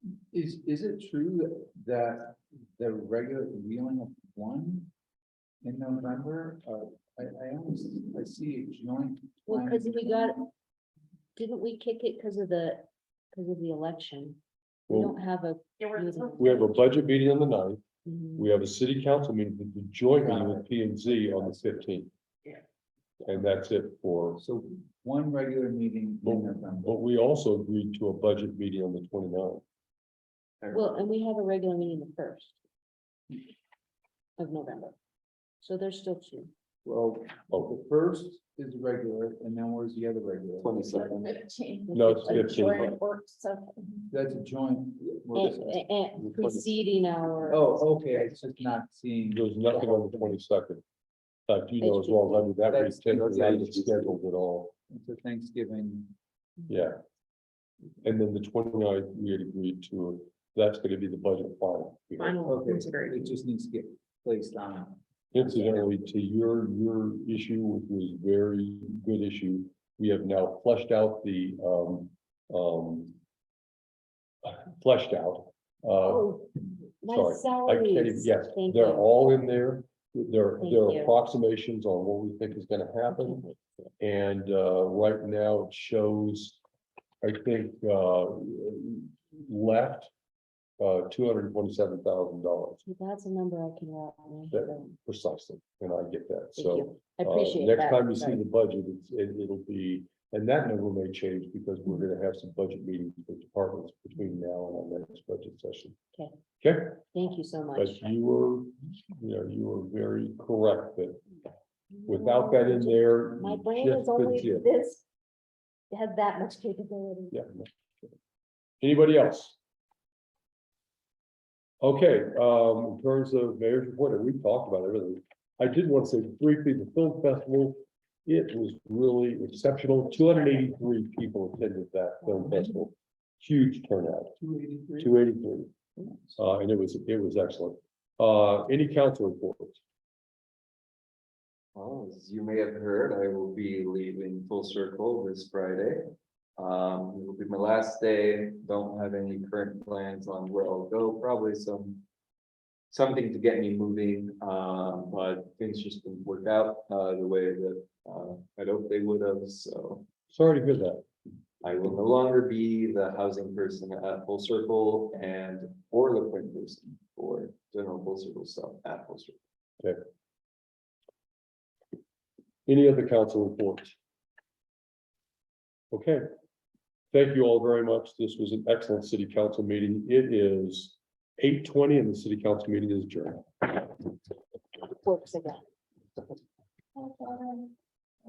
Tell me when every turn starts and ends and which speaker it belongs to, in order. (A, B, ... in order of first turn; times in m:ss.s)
0:00.3-0:04.9 A
0:05.6-0:10.4 A
0:09.5-0:10.5 B
0:11.4-0:16.8 B
0:14.9-0:15.2 C
0:15.8-0:16.4 D
0:16.4-0:17.8 C
0:18.0-0:18.4 B
0:18.3-0:22.1 C
0:20.2-0:21.8 A
0:23.2-0:24.4 C
0:24.4-0:27.0 A
0:26.2-0:29.6 C
0:30.7-0:32.6 B
0:34.4-0:34.9 B
0:35.6-0:36.5 B
0:36.8-0:41.0 A
0:40.6-0:41.4 E
0:41.1-0:44.1 D
0:41.9-0:42.6 B
0:41.9-0:43.0 C
0:44.1-0:45.8 A
0:45.3-0:48.0 B
0:47.4-0:50.4 A
0:49.3-0:50.8 C
0:51.5-0:54.7 C
0:51.8-0:52.5 B
0:52.7-0:54.2 A
0:54.9-0:56.1 A
0:56.7-0:57.0 C
0:58.0-1:02.4 C
1:02.2-1:03.4 D
1:02.4-1:06.0 A
1:05.3-1:13.2 C
1:14.4-1:16.4 C
1:16.0-1:16.5 B
1:17.0-1:19.1 B
1:17.1-1:26.6 C
1:20.6-1:21.1 B
1:27.2-1:30.1 C
1:30.8-1:32.8 C
1:32.8-1:34.9 B
1:34.5-1:46.0 C
1:36.6-1:38.4 B
1:46.6-1:47.0 C
1:47.1-1:48.1 B
1:47.8-1:51.2 C
1:51.9-1:55.0 B
1:52.1-1:54.7 C
1:55.9-1:57.4 B
1:57.3-1:57.7 C
1:58.8-1:59.6 C
2:01.8-2:14.4 C
2:14.4-2:15.2 A
2:15.0-2:15.7 C
2:16.4-2:19.8 C
2:21.8-2:32.0 E
2:32.9-2:40.0 E
2:40.3-2:41.0 C
2:41.6-2:49.4 E
2:52.7-2:54.0 C
2:55.9-2:56.2 C
2:57.1-3:03.7 C
3:05.0-3:05.6 B